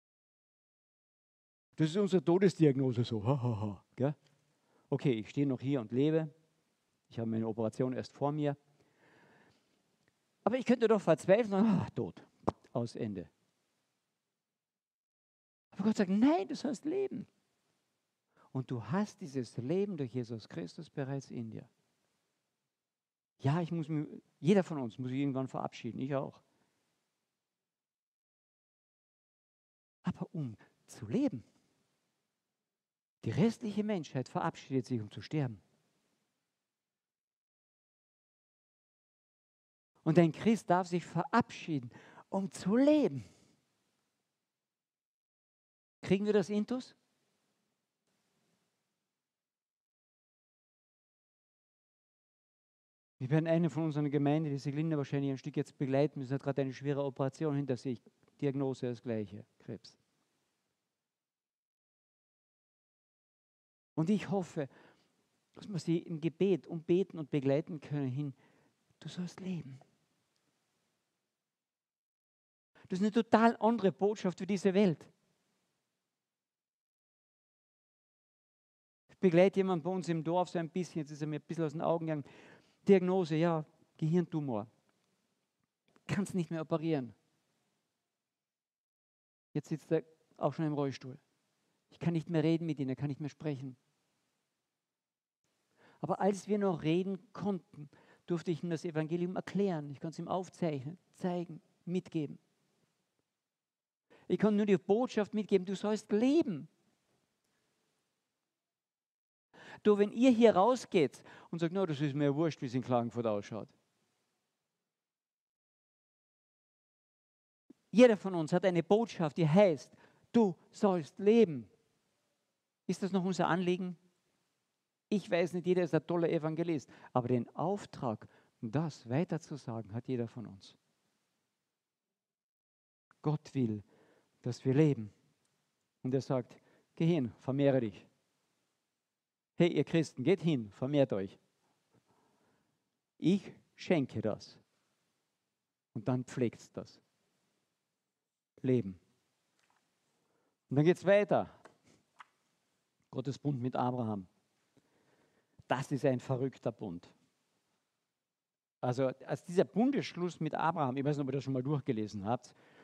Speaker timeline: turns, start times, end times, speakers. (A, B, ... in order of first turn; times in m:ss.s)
0:01.8-0:04.2 A
0:04.9-0:06.3 A
0:07.1-0:08.6 A
0:10.4-0:13.3 A
0:15.7-0:17.3 A
0:18.5-0:21.7 A
0:23.4-0:26.4 A
0:30.0-0:31.4 A
0:33.2-0:35.6 A
0:40.0-0:43.2 A
0:46.0-0:46.9 A
0:53.2-1:00.0 A
1:04.0-1:04.7 A
1:05.6-1:08.4 A
1:09.0-1:09.8 A
1:12.9-1:15.1 A
1:19.1-1:22.2 A
1:22.8-1:24.7 A
1:26.1-1:27.1 A
1:29.5-1:31.2 A
1:31.9-1:33.8 A
1:36.0-1:42.4 A
1:44.3-1:46.7 A
1:49.8-1:53.7 A
1:57.9-2:01.7 A
2:02.9-2:04.0 A
2:05.1-2:10.8 A
2:13.2-2:13.8 A
2:14.4-2:15.1 A
2:16.0-2:18.1 A
2:19.6-2:21.4 A
2:23.2-2:24.6 A
2:25.9-2:27.0 A
2:28.6-2:29.0 A
2:30.7-2:31.5 A
2:33.1-2:34.3 A
2:35.7-2:37.1 A
2:38.8-2:42.5 A